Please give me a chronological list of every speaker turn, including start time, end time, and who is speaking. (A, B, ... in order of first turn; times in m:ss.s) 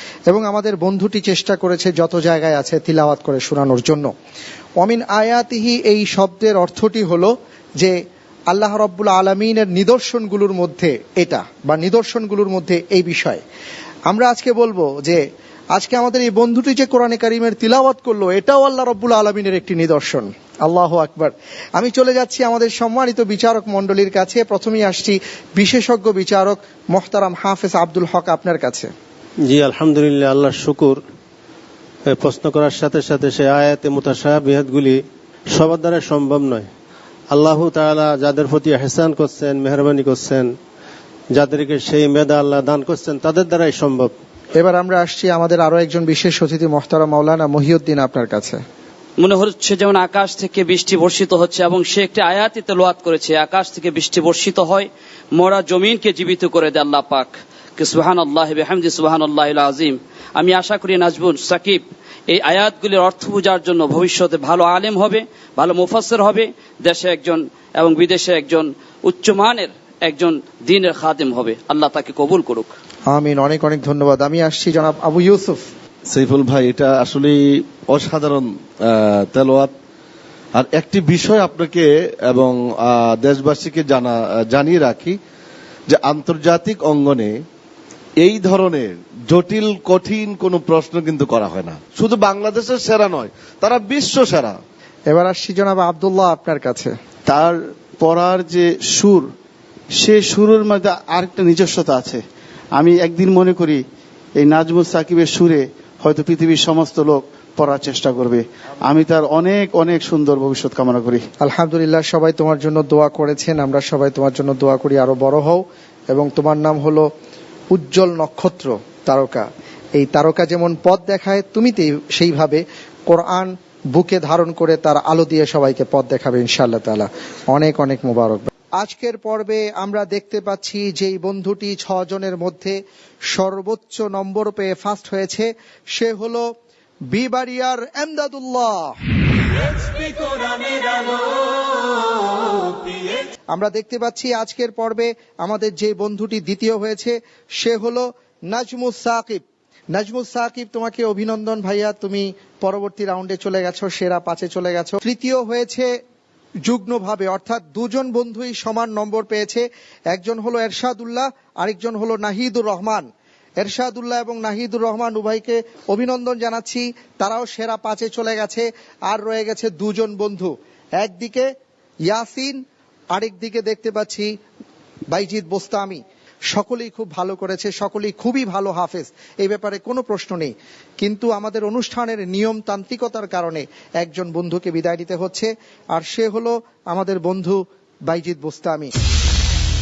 0:00.3-0:04.1 A
0:04.8-0:08.0 A
0:08.5-0:13.4 A
0:14.1-0:15.2 A
0:15.7-0:28.9 A
0:29.4-0:31.0 B
0:32.1-0:36.7 B
0:37.3-0:40.6 B
0:41.3-0:44.1 B
0:44.6-0:48.6 A
0:49.2-1:12.7 C
1:13.1-1:15.6 A
1:16.1-1:19.7 D
1:20.6-1:25.2 D
1:25.9-1:27.3 D
1:28.2-1:34.6 D
1:35.1-1:36.9 A
1:37.3-1:39.3 E
1:40.0-1:42.2 E
1:42.8-1:43.8 E
1:44.4-1:51.3 E
1:51.4-1:57.1 A
1:57.7-2:12.8 A
2:13.3-2:16.5 A
2:17.1-2:19.0 A
2:23.5-2:29.4 A
2:29.9-2:35.9 A
2:36.6-2:43.1 A
2:43.6-2:51.5 A
2:52.1-2:52.6 A
2:53.1-2:54.3 A
2:55.1-2:56.0 A
2:56.5-3:08.9 A